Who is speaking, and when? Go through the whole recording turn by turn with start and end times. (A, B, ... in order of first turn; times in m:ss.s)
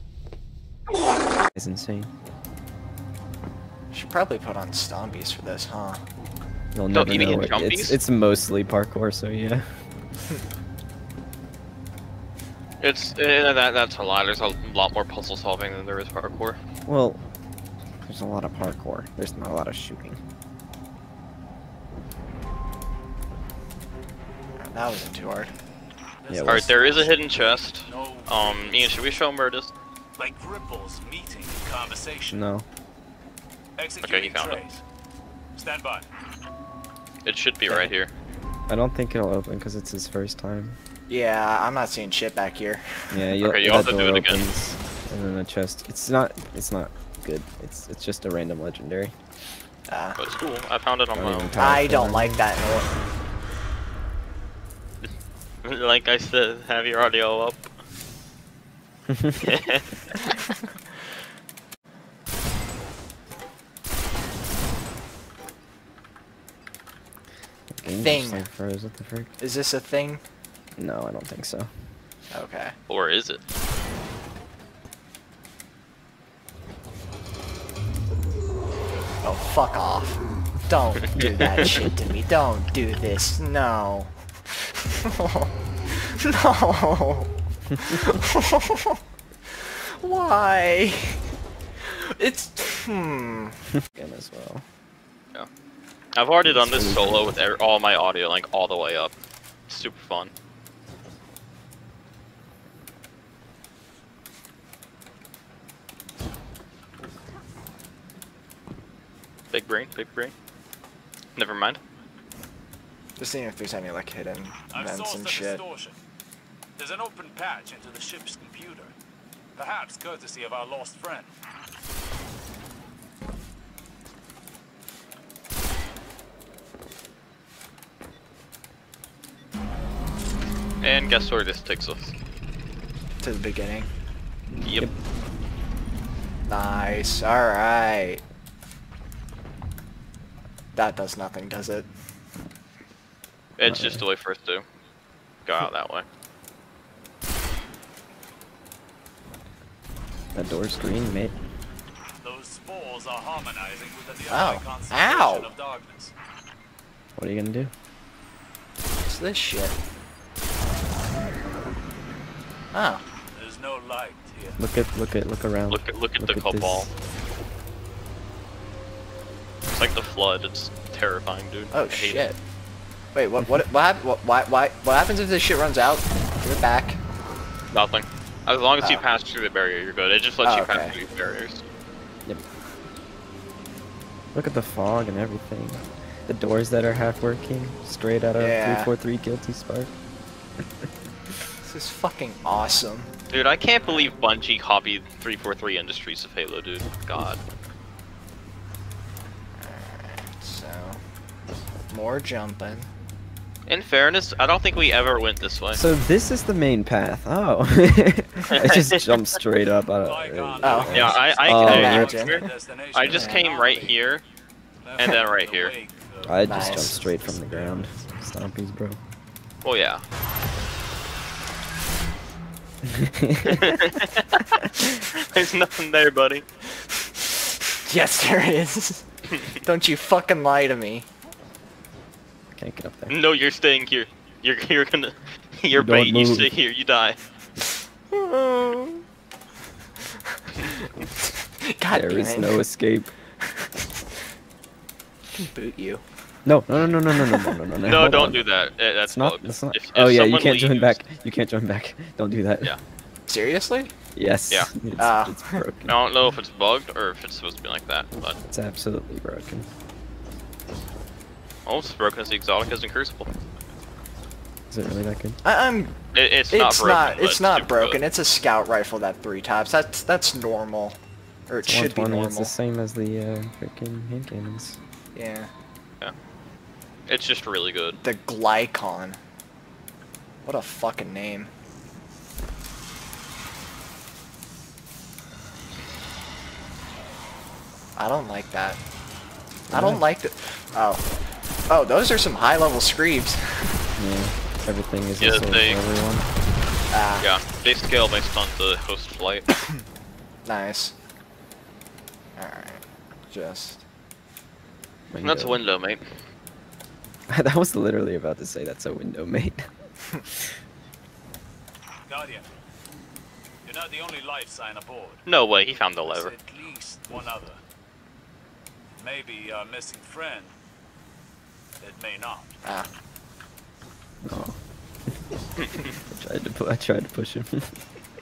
0:01.5-0:02.1 A
0:03.9-0:06.0 B
0:06.7-0:09.7 A
0:06.9-0:08.0 C
0:12.8-0:16.6 C
0:16.8-0:17.2 A
0:18.0-0:20.2 A
0:24.6-0:25.5 B
0:26.2-0:28.3 D
0:26.3-0:26.8 A
0:26.5-0:29.7 C
0:30.2-0:32.4 D
0:32.3-0:32.6 A
0:33.8-0:34.8 D
0:34.0-0:34.6 C
0:35.5-0:36.1 D
0:37.2-0:38.1 C
0:38.7-0:40.8 A
0:41.1-0:43.3 B
0:43.1-0:49.1 A
0:43.4-0:44.4 C
0:49.9-0:50.2 B
0:50.2-0:51.5 C
0:51.1-0:52.4 A
0:51.6-0:52.9 B
0:55.6-0:57.6 C
0:59.1-0:59.5 A
0:59.4-0:59.9 C
1:07.7-1:09.3 A
1:08.0-1:08.4 B
1:09.4-1:10.2 B
1:10.8-1:11.7 A
1:12.3-1:12.8 B
1:12.9-1:13.4 C
1:19.2-1:29.0 B
1:21.1-1:21.7 C
1:29.5-1:31.2 B
1:31.8-1:33.6 B
1:33.8-1:34.6 A
1:36.2-1:39.1 C
1:36.4-1:37.3 A
1:39.7-1:40.3 C
1:49.5-1:50.3 C
1:51.4-1:51.8 C
1:53.2-1:55.6 B
1:54.7-1:56.0 D
1:56.8-1:58.9 D
1:59.6-2:01.3 D
2:10.8-2:12.1 C
2:13.2-2:13.9 B
2:14.6-2:14.9 C
2:16.5-2:18.2 B
2:20.7-2:21.9 B
2:23.6-2:24.6 C
2:23.6-2:24.0 A
2:25.4-2:26.0 C
2:30.3-2:31.3 A
2:32.2-2:36.1 D
2:34.3-2:35.5 B
2:37.2-2:37.7 A
2:39.0-2:39.8 B
2:42.7-2:43.0 B
2:43.3-2:44.6 D
2:44.6-2:46.9 A
2:45.7-2:46.9 C
2:49.7-2:52.3 C
2:51.7-2:52.4 B
2:53.1-2:57.0 B
2:57.7-3:01.6 C
3:00.4-3:01.0 B
3:04.3-3:09.9 A
3:08.3-3:08.9 B
3:11.6-3:13.1 B
3:13.3-3:17.4 C
3:19.6-3:21.0 B
3:21.9-3:22.9 B
3:23.7-3:25.8 C
3:25.7-3:32.1 A
3:28.5-3:29.2 C
3:30.0-3:34.0 D
3:30.6-3:32.4 B
3:30.9-3:34.2 C
3:33.1-3:33.4 B
3:34.8-3:38.2 D
3:35.0-3:35.7 C
3:36.2-3:39.0 A
3:36.4-3:37.0 B
3:39.6-3:40.0 C
3:42.8-3:43.8 A
3:43.4-3:46.4 C
3:47.8-3:49.1 B
3:49.6-3:51.1 B
3:52.5-3:53.1 A
3:53.1-3:57.2 C
3:55.7-3:56.5 A
3:58.1-3:59.0 B
4:00.5-4:02.6 B
4:01.9-4:03.1 A
4:05.3-4:06.0 B
4:06.4-4:08.4 A
4:07.1-4:07.5 B
4:07.8-4:11.0 C
4:09.1-4:12.7 A
4:13.3-4:13.9 B
4:14.1-4:16.0 A
4:15.0-4:15.6 B
4:15.9-4:18.4 C
4:18.5-4:19.6 A
4:21.6-4:23.3 C
4:24.7-4:25.4 A
4:25.4-4:26.0 B
4:26.1-4:28.0 C
4:26.5-4:32.5 B
4:31.6-4:34.8 A
4:35.1-4:35.5 B
4:37.1-4:38.0 C
4:38.0-4:39.2 B
4:40.4-4:41.5 B
4:48.0-4:48.8 B
4:49.7-4:50.0 A
4:49.7-4:51.0 B
4:51.7-4:53.8 B
4:54.0-4:56.3 A
4:55.2-4:55.8 C
4:56.9-4:57.3 B
4:57.2-4:59.4 C
5:00.4-5:00.9 B
5:02.4-5:03.8 B
5:05.1-5:05.6 A
5:05.2-5:06.1 C
5:07.3-5:09.7 A
5:12.1-5:12.5 D
5:13.6-5:15.2 D
5:15.2-5:16.3 C
5:16.0-5:17.6 D
5:19.0-5:20.5 D
5:21.8-5:22.5 D
5:24.2-5:24.6 A
5:25.6-5:25.9 C
5:26.1-5:27.8 A